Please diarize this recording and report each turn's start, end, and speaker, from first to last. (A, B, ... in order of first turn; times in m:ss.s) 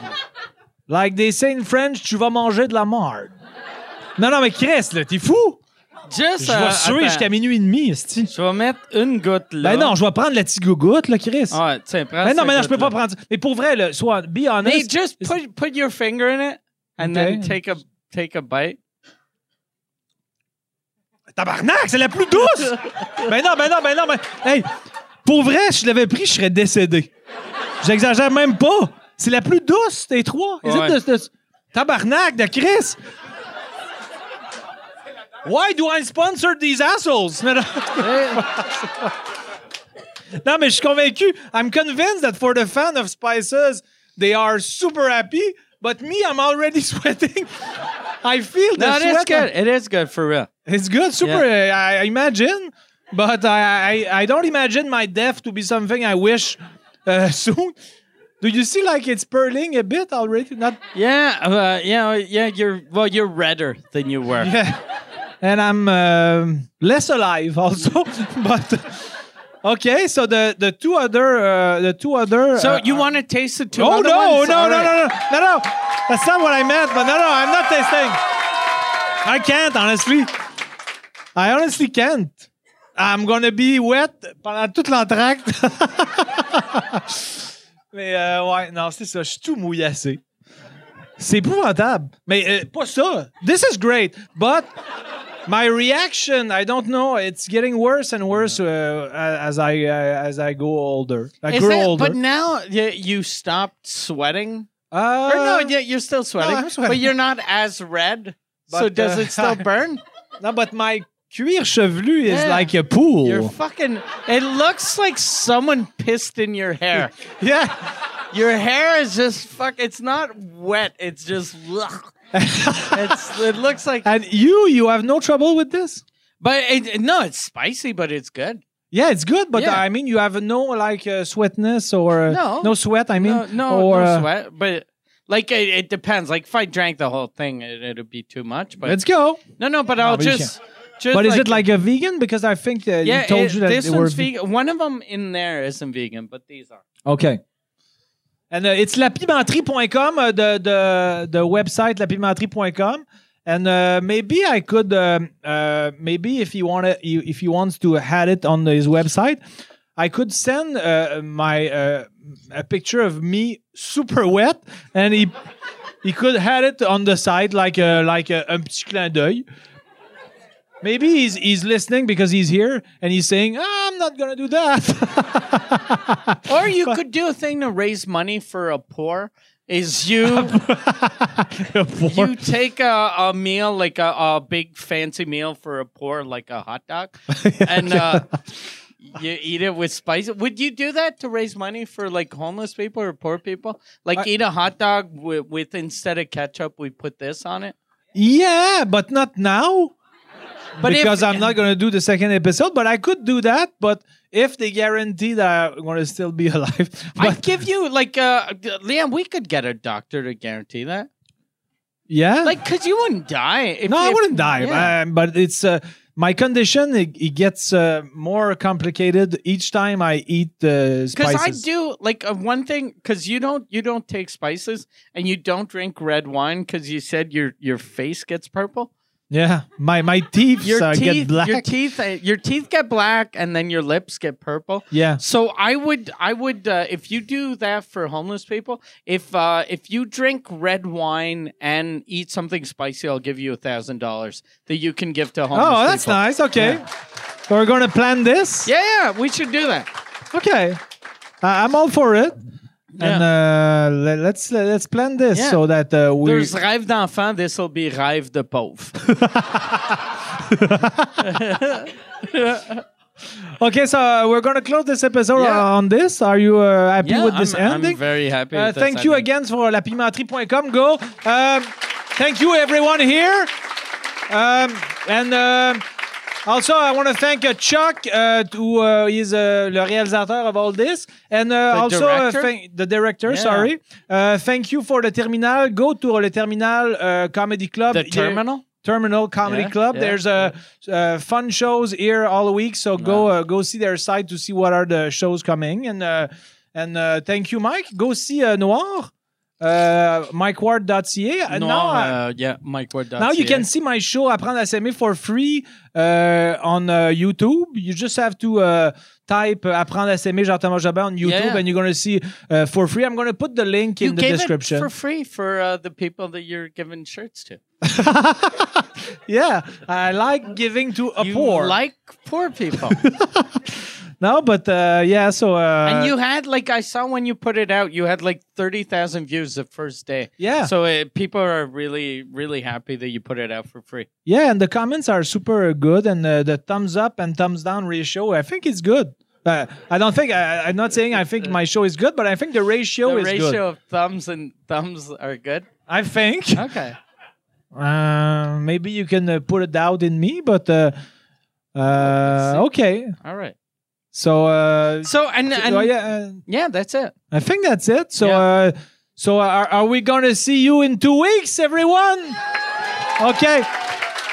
0:00.9-0:03.3 A
0:04.2-0:05.6 A
0:06.1-0:07.3 B
0:06.4-0:08.3 A
0:08.3-0:09.9 B
0:09.6-0:11.6 A
0:11.5-0:12.9 B
0:12.2-0:15.3 A
0:14.6-0:18.8 B
0:17.0-0:17.6 A
0:21.3-0:24.7 A
0:22.8-0:23.3 B
0:25.2-0:27.1 A
0:27.8-0:33.0 A
0:30.6-0:31.0 B
0:35.4-0:39.1 A
0:38.0-0:38.5 B
0:40.4-0:49.5 A
0:48.8-0:50.5 B
0:50.6-0:57.8 A
0:58.4-1:00.8 A
1:00.9-1:04.5 B
1:04.4-1:04.8 A
1:05.4-1:13.1 A
1:12.5-1:15.0 B
1:13.7-1:18.2 A
1:19.2-1:20.3 A
1:21.3-1:30.2 A
1:31.2-1:34.7 A
1:35.4-1:42.2 A
1:41.5-1:44.7 B
1:44.9-1:45.7 A
1:45.2-1:50.0 B
1:46.4-1:47.1 A
1:48.7-1:49.6 A
1:50.4-1:53.5 A
1:52.2-1:57.2 B
1:57.0-1:57.9 A
1:58.3-2:02.1 B
2:02.3-2:03.4 A
2:02.9-2:04.1 B
2:04.0-2:06.0 A
2:06.4-2:08.6 B
2:08.9-2:14.3 A
2:09.5-2:09.8 B
2:12.3-2:19.0 B
2:18.8-2:19.4 A
2:19.6-2:21.6 B
2:20.0-2:20.5 A
2:21.1-2:24.3 A
2:23.0-2:26.8 B
2:27.0-2:27.4 A
2:28.5-2:39.4 A
2:40.0-2:45.3 A
2:46.0-2:49.4 A
2:50.8-2:57.0 A
2:56.4-3:00.6 B
3:00.2-3:02.4 A
3:02.1-3:08.3 B
3:07.3-3:08.3 A
3:09.0-3:17.7 B
3:18.1-3:19.9 A
3:20.8-3:27.5 A
3:20.8-3:21.5 B
3:27.2-3:31.1 B
3:32.1-3:32.6 A
3:32.4-3:34.9 B
3:33.9-3:41.6 A
3:41.1-3:48.9 B
3:49.3-3:51.7 A
3:50.6-4:06.8 B
3:54.9-3:55.2 A
4:05.5-4:06.8 A
4:07.5-4:08.7 A
4:08.6-4:09.9 B
4:10.3-4:10.8 A
4:11.4-4:12.4 A
4:12.9-4:13.2 B
4:13.0-4:16.5 A
4:15.3-4:15.6 B
4:16.2-4:19.0 B
4:19.0-4:21.3 A
4:21.2-4:22.8 B
4:23.4-4:28.0 A
4:25.4-4:25.6 B
4:27.0-4:29.2 B
4:28.5-4:33.5 A
4:34.3-4:35.8 A
4:36.4-5:02.2 A
4:41.7-4:42.5 B
4:43.3-4:43.7 B
4:47.9-4:48.6 B
4:49.4-4:50.5 B
4:53.0-4:53.2 B
5:01.5-5:03.6 B
5:03.2-5:14.9 A
5:11.2-5:11.6 B
5:14.0-5:17.6 B
5:17.8-5:21.8 A
5:21.2-5:23.0 B
5:22.9-5:26.1 A
5:25.8-5:34.1 B
5:30.4-5:30.7 A
5:34.2-5:43.6 A
5:43.0-5:45.7 B
5:45.9-5:46.7 A
5:46.5-5:47.0 B
5:47.7-5:50.9 A
5:51.7-5:53.2 A
5:52.2-5:52.6 B
5:53.2-5:53.6 B
5:54.1-5:56.4 A
5:55.0-5:55.9 B
5:56.4-5:57.1 B
5:57.3-6:02.4 A
5:58.2-5:58.4 B
6:03.2-6:03.8 A